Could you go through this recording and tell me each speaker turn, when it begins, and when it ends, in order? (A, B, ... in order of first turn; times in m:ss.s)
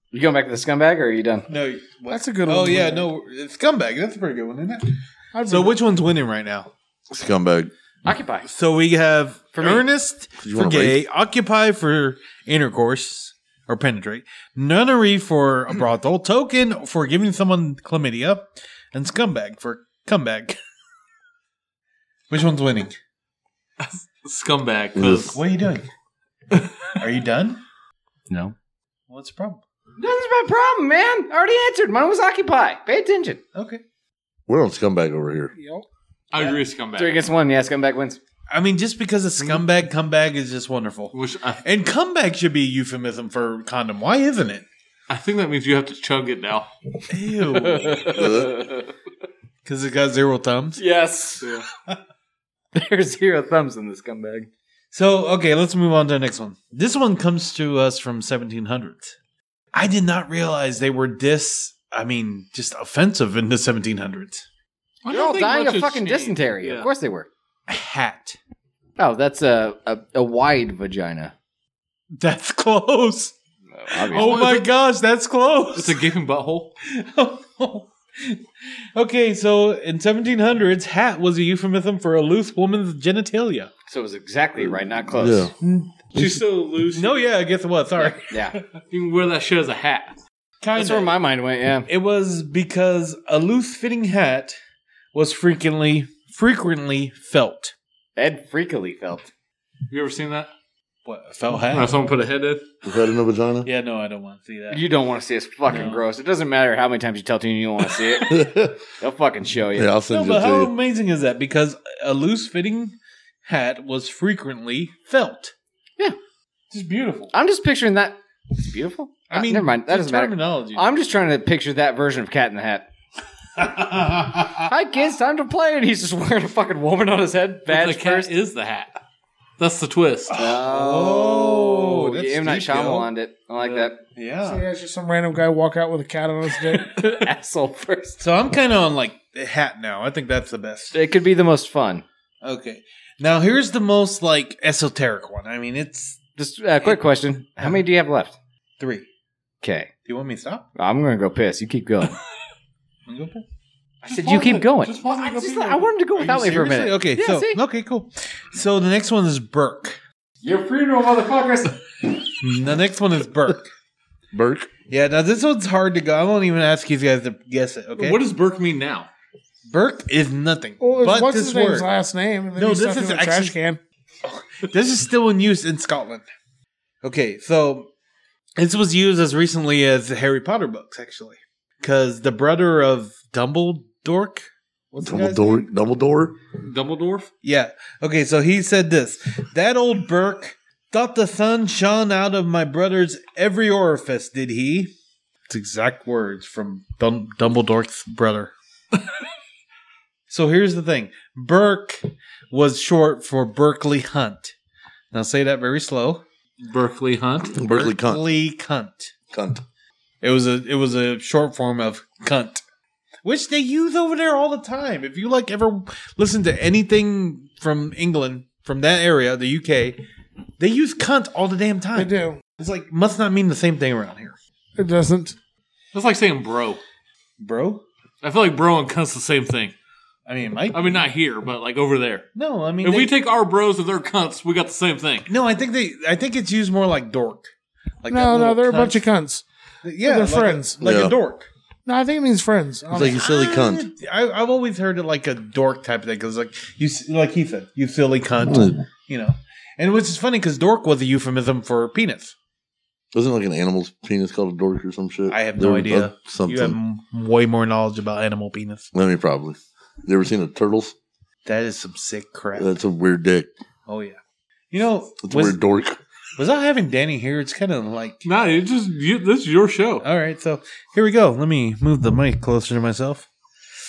0:00.1-0:01.5 A
0:01.5-0:04.9 B
0:02.1-0:03.1 C
0:05.3-0:05.8 C
0:05.4-0:06.7 B
0:07.1-0:07.7 D
0:08.0-0:08.5 A
0:08.4-0:20.6 B
0:09.5-0:09.8 A
0:10.4-0:11.0 D
0:22.3-0:23.0 B
0:23.8-0:25.4 E
0:25.0-0:25.4 D
0:25.3-0:25.8 B
0:26.5-0:26.9 E
0:27.0-0:27.6 B
0:28.3-0:28.5 A
0:29.1-0:29.6 B
0:30.0-0:33.4 A
0:33.5-0:33.8 B
0:34.5-0:35.5 D
0:35.5-0:35.8 C
0:36.3-0:37.2 E
0:36.4-0:38.2 A
0:38.5-0:44.6 B
0:41.1-0:41.6 E
0:45.1-0:46.7 E
0:47.1-0:48.3 B
0:47.5-0:48.8 A
0:48.1-0:48.4 D
0:49.6-0:50.8 B
0:50.8-0:51.6 A
0:52.7-0:54.5 A
0:54.9-0:59.1 B
0:59.7-1:04.4 B
1:05.0-1:06.9 E
1:05.1-1:07.3 A
1:07.7-1:08.4 B
1:09.0-1:11.3 A
1:12.2-1:13.3 B
1:13.7-1:14.4 A
1:13.9-1:16.0 B
1:14.1-1:14.7 E
1:15.7-1:16.7 E
1:16.9-1:18.4 B
1:18.9-1:23.7 B
1:23.9-1:25.5 A
1:24.6-1:25.5 D
1:25.6-1:26.1 B
1:26.1-1:27.3 E
1:26.9-1:28.4 B
1:28.0-1:28.6 A
1:28.9-1:30.2 E
1:30.6-1:31.2 B
1:30.7-1:31.9 A
1:31.9-1:34.6 B
1:35.1-1:37.7 B
1:38.2-1:39.3 A
1:39.9-1:40.5 E
1:41.0-1:41.9 B
1:41.5-1:42.6 E
1:42.8-1:43.7 D
1:43.6-1:44.8 B
1:44.7-1:49.9 A
1:45.7-1:46.0 B
1:48.3-1:48.8 D
1:49.7-1:50.7 D
1:50.1-1:55.5 B
1:56.7-1:57.3 B
1:57.3-2:02.9 A
1:59.3-2:00.8 B
2:03.6-2:04.7 B
2:04.7-2:08.3 A
2:07.7-2:09.0 E
2:09.6-2:10.4 E
2:10.3-2:14.0 A
2:10.3-2:13.1 B
2:13.6-2:13.9 E
2:14.1-2:14.6 B
2:14.4-2:17.0 C
2:16.8-2:18.2 A
2:18.2-2:20.9 B
2:20.9-2:22.0 A
2:22.4-2:26.2 B
2:26.4-2:28.4 A
2:27.6-2:27.8 B
2:28.8-2:29.0 B
2:29.6-2:29.9 A
2:30.0-2:30.6 B
2:30.8-2:32.1 A
2:33.1-2:33.4 B
2:34.1-2:35.9 E
2:34.1-2:37.6 A
2:34.2-2:34.6 B
2:36.1-2:40.0 B
2:40.4-2:41.7 A
2:42.4-2:43.7 B
2:44.3-2:44.7 D
2:44.9-2:48.2 B
2:48.0-2:49.1 E
2:49.7-2:51.9 B
2:50.8-2:53.8 C
2:52.6-2:53.5 B
2:54.2-2:56.2 B
2:57.0-2:57.9 B
2:58.6-3:05.7 B
3:05.0-3:06.3 D
3:06.6-3:07.3 E
3:07.4-3:14.9 B
3:15.5-3:18.5 B
3:20.3-3:24.5 B
3:25.1-3:26.2 B
3:26.6-3:27.5 E
3:27.5-3:28.2 D
3:27.5-3:29.1 B
3:29.3-3:29.6 D
3:30.2-3:32.6 B
3:33.2-3:40.0 B
3:40.6-3:44.4 B
3:41.9-3:42.4 C
3:44.8-3:45.4 C
3:45.9-3:46.8 E
3:47.4-3:47.8 B
3:48.2-3:49.7 E
3:50.3-3:51.1 B
3:50.7-3:52.2 E
3:52.3-3:53.1 B
3:52.8-3:55.3 E
3:55.3-3:57.5 B
3:58.0-3:59.0 B
3:58.1-3:59.4 C
3:59.8-4:01.5 B
4:00.0-4:00.8 C
4:00.8-4:01.2 D
4:01.8-4:03.2 C
4:02.9-4:03.9 D
4:03.0-4:12.3 B
4:08.4-4:08.8 D
4:13.1-4:16.8 D
4:15.3-4:18.9 B
4:18.9-4:20.9 D
4:21.4-4:22.7 B
4:22.6-4:23.5 D
4:23.9-4:24.2 B
4:24.7-4:25.5 B
4:25.2-4:26.0 D
4:26.4-4:28.2 B
4:28.2-4:30.0 E
4:30.0-4:33.3 B